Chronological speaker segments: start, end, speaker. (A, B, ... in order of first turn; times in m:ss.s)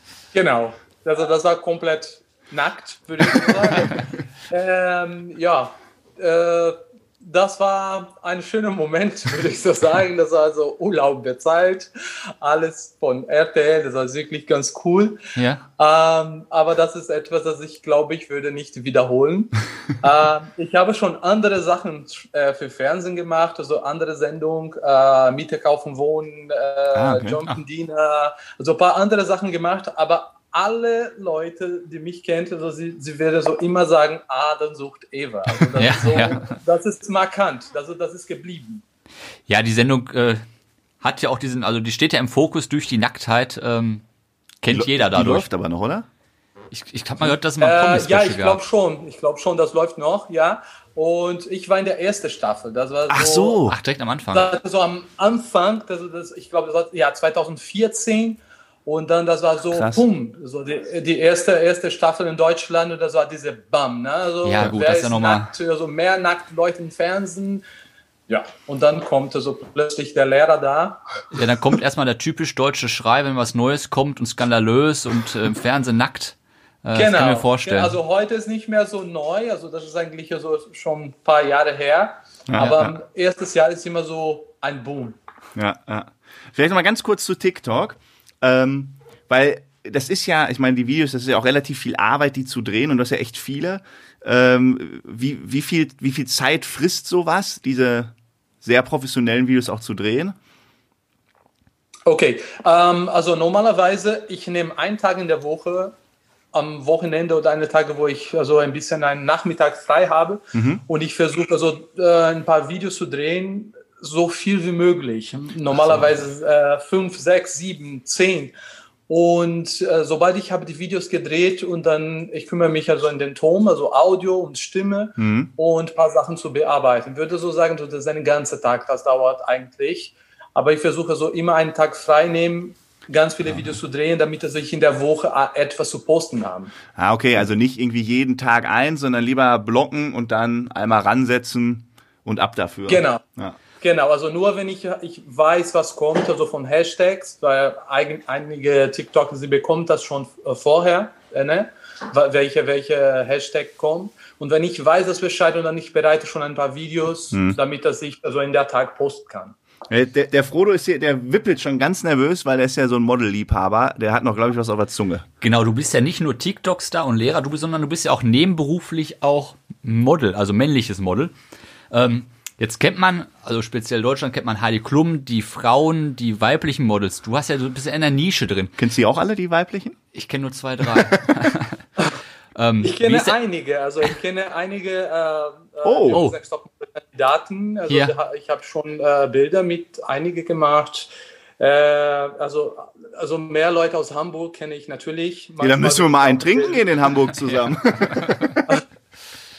0:00.3-0:15.2 A
0:15.4-0:15.6 B
0:15.8-0:38.8 A
0:26.9-0:27.5 C
0:35.8-0:36.5 B
0:39.5-0:40.4 B
0:41.0-0:44.0 B
0:44.6-0:45.5 B
0:44.7-0:46.1 C
0:46.7-0:48.6 B
0:47.6-0:53.6 A
0:53.1-0:53.8 C
0:53.7-0:54.6 B
0:54.3-1:07.6 A
0:59.7-1:00.1 C
1:04.4-1:05.5 B
1:08.3-1:11.0 A
1:11.3-1:18.0 B
1:17.0-1:25.2 A
1:22.5-1:23.0 C
1:22.6-1:22.8 B
1:25.6-1:40.4 C
1:42.1-1:46.0 A
1:46.5-1:58.5 A
1:50.5-1:50.8 C
1:59.1-2:16.8 A
2:05.2-2:05.5 C
2:16.9-2:23.6 C
2:22.9-2:23.2 A
2:23.8-2:39.6 A
2:37.3-2:37.6 C
2:39.9-2:45.3 C
2:45.4-2:51.4 B
2:51.9-2:58.8 B
2:58.8-3:00.0 C
3:00.1-3:01.8 B
3:00.8-3:01.3 C
3:02.6-3:03.4 B
3:02.8-3:16.9 A
3:05.8-3:06.2 C
3:06.1-3:06.4 B
3:15.6-3:18.8 C